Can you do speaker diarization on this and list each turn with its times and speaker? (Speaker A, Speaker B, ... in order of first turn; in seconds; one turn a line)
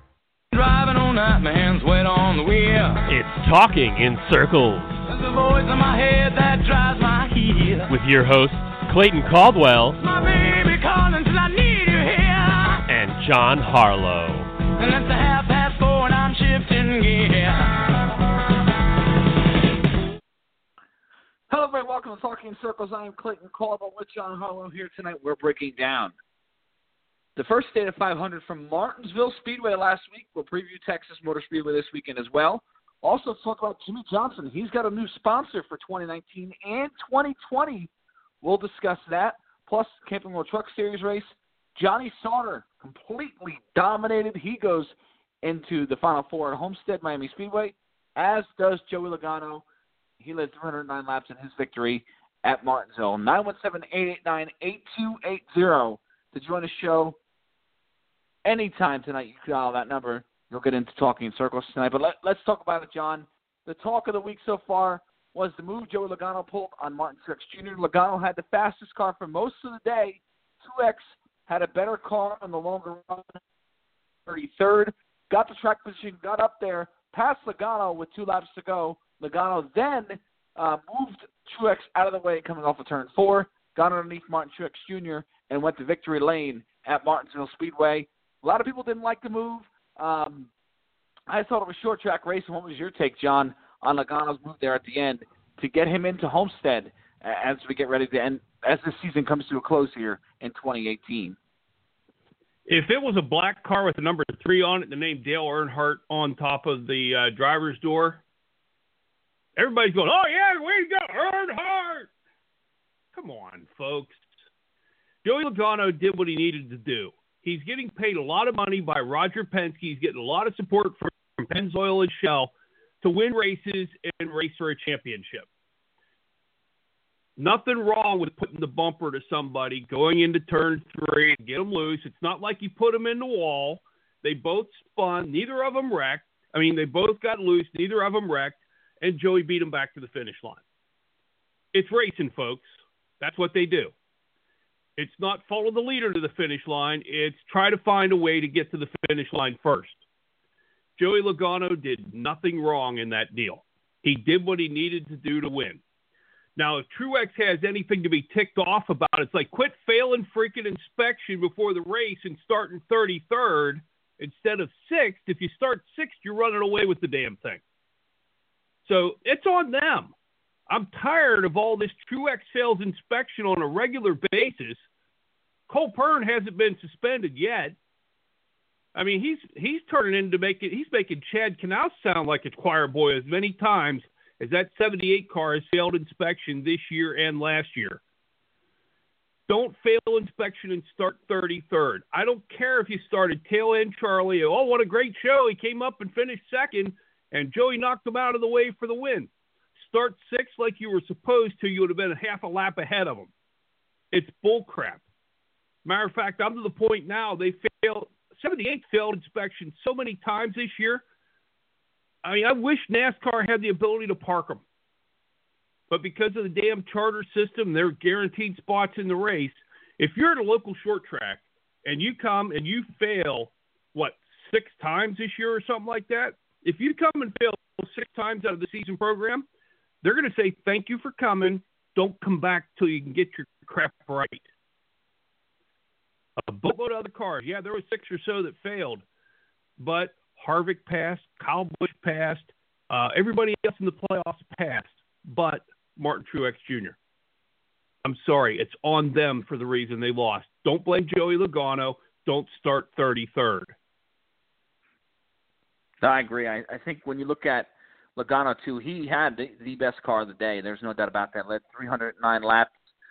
Speaker A: 0.5-3.0
Speaker B: 3.1-5.0
Speaker A: 5.1-7.9
Speaker B: 7.9-10.0
Speaker A: 10.0-12.8
Speaker B: 12.9-14.5
Speaker A: 14.7-18.0
Speaker C: 21.5-26.1
Speaker C: 27.4-37.9
Speaker C: 38.4-49.6
Speaker C: 50.2-57.2
Speaker C: 58.5-73.4
Speaker C: 74.3-90.5
Speaker C: 91.3-101.4
Speaker D: 102.7-108.2
Speaker D: 109.6-112.1
Speaker D: 113.1-114.3
Speaker D: 115.2-122.5
Speaker D: 123.0-125.5
Speaker D: 127.4-140.6
Speaker D: 141.7-143.9
Speaker D: 145.0-150.0
Speaker D: 151.0-155.8
Speaker D: 156.6-167.6
Speaker D: 168.9-170.1
Speaker D: 170.7-174.8
Speaker D: 175.7-177.8
Speaker D: 178.9-188.0
Speaker D: 189.5-203.3
Speaker D: 204.1-205.0
Speaker D: 205.8-211.0
Speaker D: 212.2-214.6
Speaker D: 215.9-229.5
Speaker D: 230.0-234.4
Speaker D: 236.4-239.0
Speaker D: 239.8-247.0
Speaker D: 248.0-253.7
Speaker C: 256.0-262.7